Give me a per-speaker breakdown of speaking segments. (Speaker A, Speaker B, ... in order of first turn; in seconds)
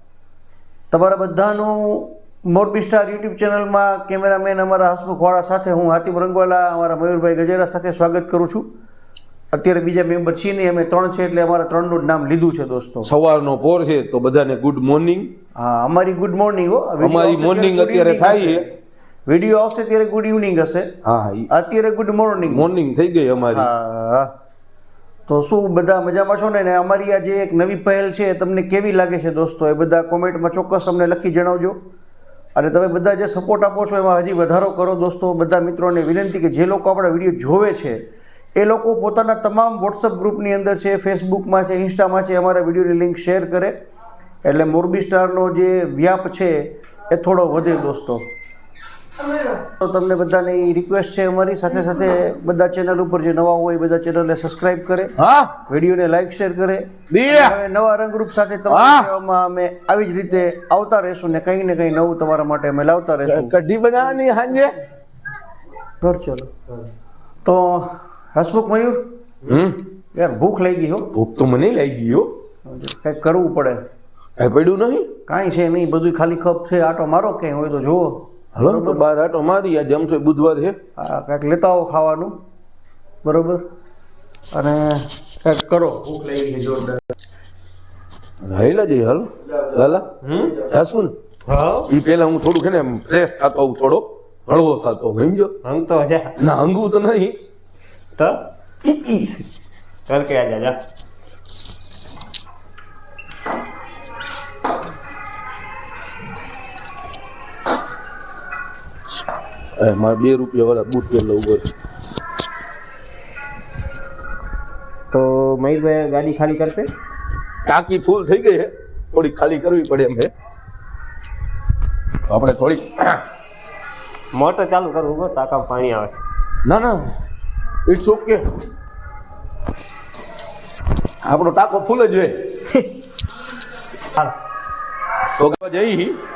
Speaker A: 0.9-8.7, 9.5-13.1, 15.6-18.7, 19.3-20.9, 21.5-22.6, 23.5-24.3, 25.3-31.8, 32.5-38.0, 38.5-43.7, 44.4-48.2, 49.8-55.1, 55.7-63.5, 66.0-66.5, 67.4-69.0, 70.1-71.1, 72.7-73.8, 75.3-79.0, 81.0-82.4, 83.2-83.6, 84.5-87.0
Speaker B: 13.0-15.3, 17.0-18.6, 21.0-21.5, 22.4-23.7, 55.2-55.6, 57.1-57.6, 58.7-59.1, 63.2-64.8, 69.5-69.8, 71.1-72.3, 74.4-75.1, 78.5-80.8, 88.4-90.1, 90.6-91.1, 91.9-95.5, 96.4-97.4, 98.8-99.4, 109.8-111.7, 117.7-120.3, 122.3-123.2, 126.6-127.1, 127.8-128.5, 131.2-132.6, 135.4-136.2
Speaker C: 90.2-90.6, 91.5-91.9, 95.6-96.3, 98.2-98.5, 100.1-100.8, 115.1-116.9, 124.3-126.2